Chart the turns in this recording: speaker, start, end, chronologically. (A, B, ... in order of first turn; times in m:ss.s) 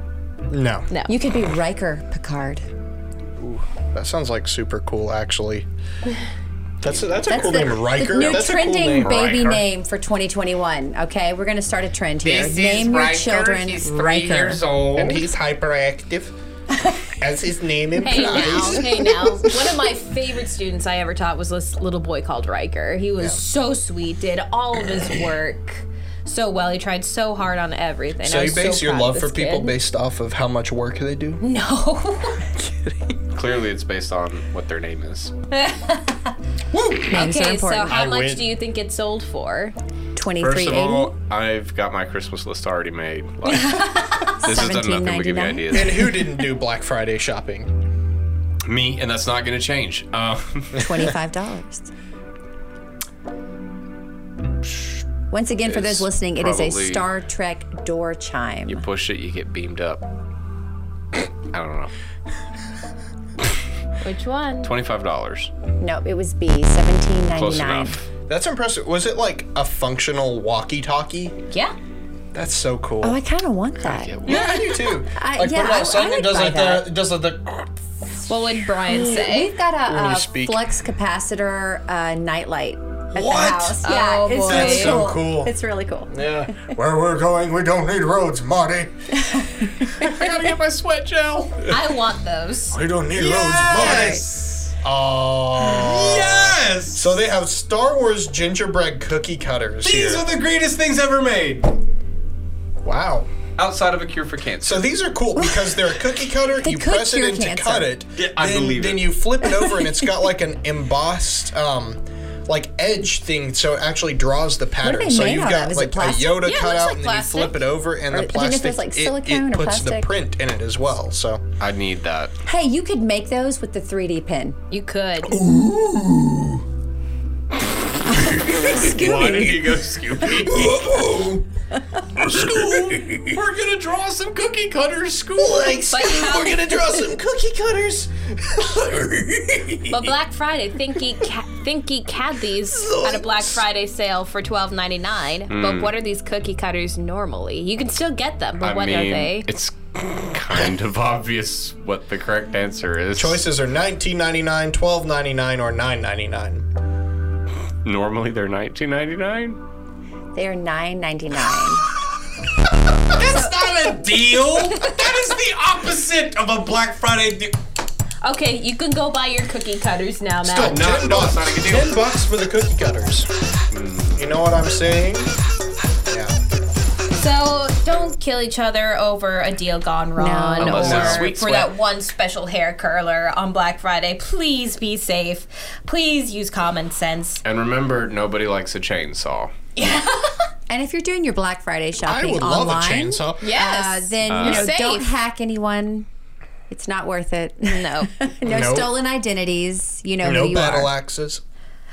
0:00.5-0:00.9 A
0:00.9-0:01.2 B
0:01.1-0:02.7 C
0:03.4-0:05.7 A
0:06.8-0:07.7 D
0:06.8-0:09.4 A
0:07.3-0:14.6 C
0:09.0-0:09.6 D
0:12.2-0:15.3 D
0:14.9-0:16.3 A
0:17.2-0:19.5 A
0:18.0-0:29.7 B
0:18.2-0:18.7 C
0:28.2-0:31.4 A
0:31.4-0:32.4 B
0:32.6-0:33.1 A
0:33.3-0:35.3 D
0:35.5-0:36.2 B
0:36.7-0:37.2 A
0:37.0-0:39.8 B
0:37.1-0:38.0 C
0:37.9-0:38.5 A
0:40.2-0:41.1 C
0:40.4-0:46.1 D
0:43.4-0:44.3 B
0:44.3-0:46.4 C
0:45.7-0:47.7 A
0:48.6-0:51.0 D
0:50.8-0:51.9 C
0:54.6-0:55.0 D
0:55.3-0:58.8 C
0:55.7-0:57.1 D
0:58.7-1:00.0 D
1:01.5-1:01.9 D
1:04.0-1:04.7 B
1:04.6-1:05.5 D
1:05.8-1:08.0 C
1:07.4-1:08.1 D
1:08.3-1:11.4 A
1:12.3-1:13.2 A
1:13.0-1:14.5 C
1:13.8-1:14.8 D
1:14.2-1:17.8 A
1:14.3-1:14.6 B
1:15.1-1:16.9 C
1:18.3-1:19.6 B
1:18.9-1:26.7 C
1:19.9-1:20.7 A
1:23.1-1:23.8 A
1:23.8-1:25.0 B
1:24.4-1:25.5 A
1:26.1-1:28.9 A
1:29.2-1:30.0 C
1:30.0-1:31.8 D
1:31.7-1:32.8 B
1:32.7-1:34.2 A
1:33.1-1:34.6 D
1:33.6-1:34.1 B
1:33.8-1:34.3 C
1:34.8-1:40.3 A
1:35.6-1:37.1 D
1:39.8-1:41.8 D
1:42.8-1:43.3 A
1:43.6-1:44.9 D
1:44.6-2:01.4 A
1:45.4-1:47.9 C
1:48.2-1:49.2 D
1:54.8-1:56.4 C
1:56.4-1:57.6 B
1:58.1-2:00.1 C
2:01.6-2:02.3 D
2:02.4-2:04.6 C
2:04.7-2:05.4 B
2:05.3-2:06.6 A
2:08.2-2:09.4 A
2:08.2-2:11.0 D
2:08.5-2:09.3 C
2:08.8-2:09.5 B
2:10.3-2:11.5 A
2:12.2-2:13.4 A
2:12.2-2:15.8 D
2:15.4-2:20.2 A
2:15.9-2:16.9 B
2:19.9-2:29.5 B
2:22.7-2:23.6 A
2:25.5-2:25.9 D
2:28.6-2:33.4 D
2:33.2-2:36.7 A
2:37.8-2:39.6 D
2:40.4-2:41.9 C
2:43.1-2:47.6 D
2:43.2-2:43.5 C
2:48.2-2:50.9 B
2:50.4-2:53.3 A
2:50.5-2:52.0 D
2:53.7-2:54.3 D
2:54.2-2:55.3 A
2:56.1-2:56.4 A
2:57.1-3:07.4 B
3:00.2-3:01.3 C
3:00.6-3:01.7 D
3:07.4-3:09.5 D
3:09.8-3:10.5 B
3:10.7-3:16.1 C
3:12.0-3:13.4 A
3:13.4-3:15.1 B
3:14.3-3:14.7 D
3:16.7-3:20.9 C
3:17.7-3:18.1 B
3:18.4-3:19.0 A
3:20.2-3:21.4 A